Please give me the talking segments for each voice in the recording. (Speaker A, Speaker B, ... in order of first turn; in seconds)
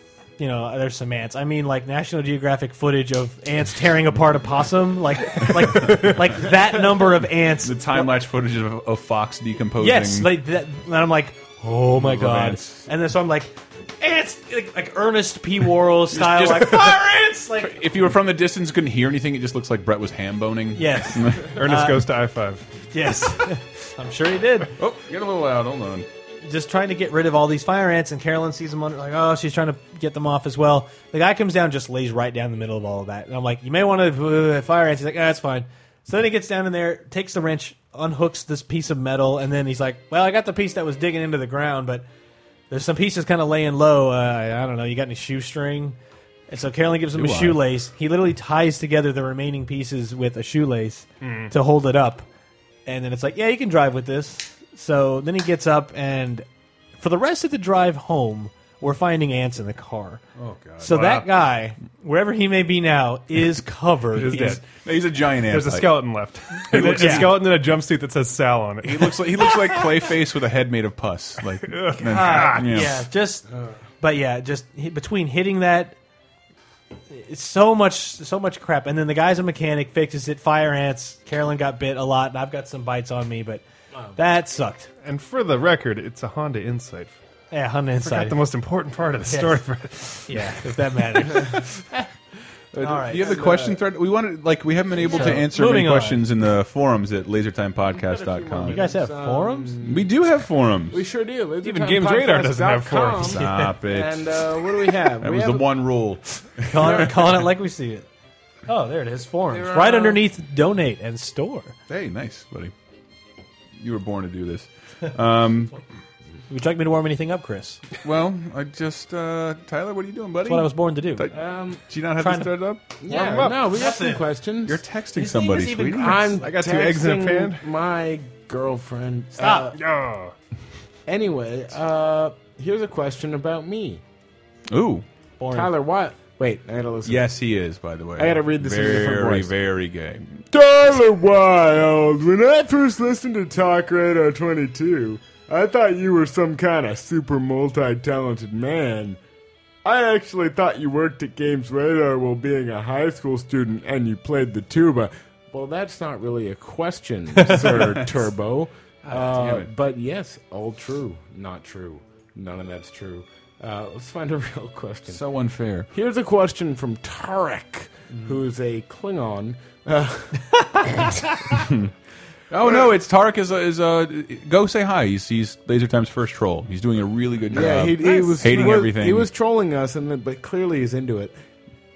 Speaker A: 0.4-8.1, 9.8-17.8, 20.7-22.1, 22.9-24.7, 26.4-42.0, 42.7-46.0, 46.5-52.2, 52.9-56.5, 57.0-60.2, 60.8-64.6, 66.7-67.4, 72.1-73.5, 74.0-76.0, 77.1-83.6, 84.2-84.9, 87.5-88.4, 89.3-89.6, 90.3-91.5, 92.8-93.3, 95.0-96.2, 98.7-99.7, 103.3-103.7, 106.7-108.0, 108.7-111.7, 116.5-117.8, 120.4-121.3, 122.2-122.5, 123.1-124.2, 125.1-126.3, 129.4-129.7, 135.4-135.7
Speaker B: 5.7-6.1, 7.6-10.4, 11.9-12.9, 16.1-21.5, 24.8-26.1, 47.1-47.6, 60.4-61.2, 64.2-67.5, 68.8-73.0, 92.7-98.8, 99.8-101.0, 103.2-104.4, 105.2-107.5, 111.9-112.7, 113.8-115.8, 118.0-123.0, 124.6-126.3, 134.7-135.0, 137.0-140.4, 157.6-158.1, 159.0-159.7, 165.1-165.9, 171.5-171.9, 172.5-179.3
Speaker C: 21.5-22.7, 51.2-51.5, 64.1-64.6, 65.5-70.1, 71.7-72.6, 85.0-87.2, 88.0-90.7, 101.6-103.4, 123.1-123.5, 126.3-127.6, 129.7-130.3
Speaker D: 93.1-93.8, 97.8-100.2, 100.9-105.7, 106.8-107.1, 109.5-110.2, 121.3-121.8, 123.0-124.8, 125.9-129.8, 131.1-134.0, 135.5-137.3, 138.2-139.5, 140.5-149.2, 149.8-165.2, 165.9-171.6, 177.5-181.3